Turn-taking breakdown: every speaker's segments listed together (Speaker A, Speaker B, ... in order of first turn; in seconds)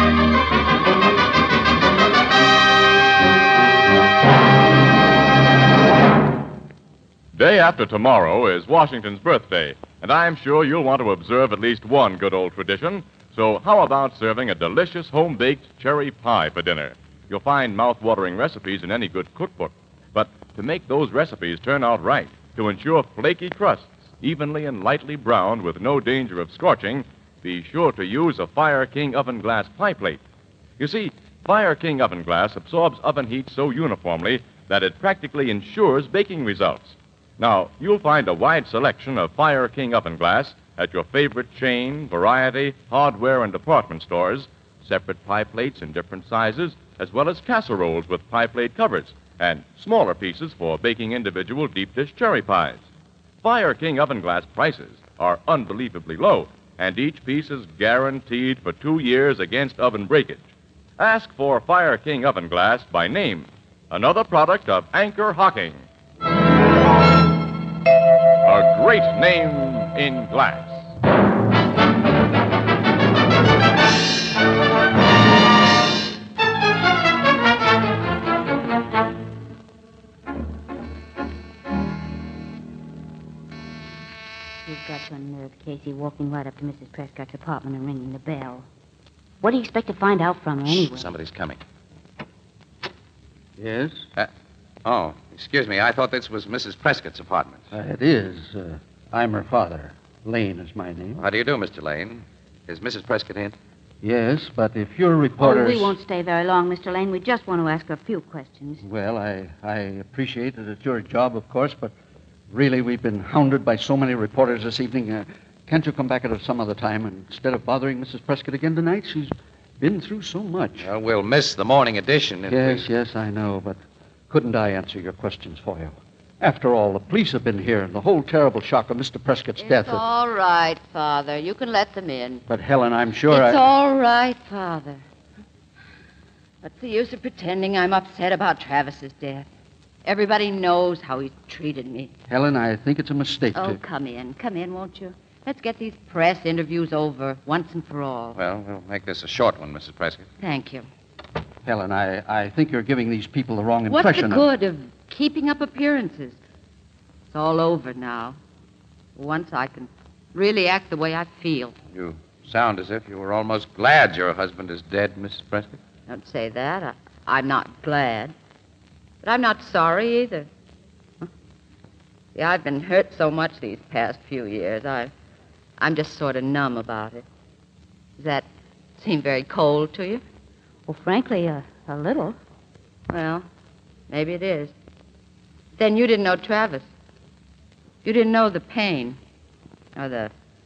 Speaker A: 7.3-30.2, 30.8-52.9, 53.4-65.8, 68.4-70.9
Speaker B: 84.7-88.7, 89.4-91.1, 105.4-108.8, 180.9-182.4
Speaker C: 90.7-91.6, 94.8-97.7, 101.2-103.5, 120.8-122.9, 148.3-150.3, 161.9-165.8
Speaker D: 93.6-94.1, 97.7-101.2, 104.0-105.9, 108.8-111.9, 112.5-120.9, 122.5-130.0, 132.5-133.7, 142.3-143.8, 151.6-154.5
Speaker E: 129.6-132.4, 133.3-135.0, 136.6-139.5, 140.0-142.1, 143.5-148.4, 150.4-150.9, 153.9-156.4, 157.3-158.4, 159.2-161.7, 166.1-168.3, 169.2-170.5, 172.3-175.1, 175.8-177.2, 178.2-180.2, 183.1-183.4, 184.1-184.7, 185.8-186.9, 188.0-189.2, 189.9-190.3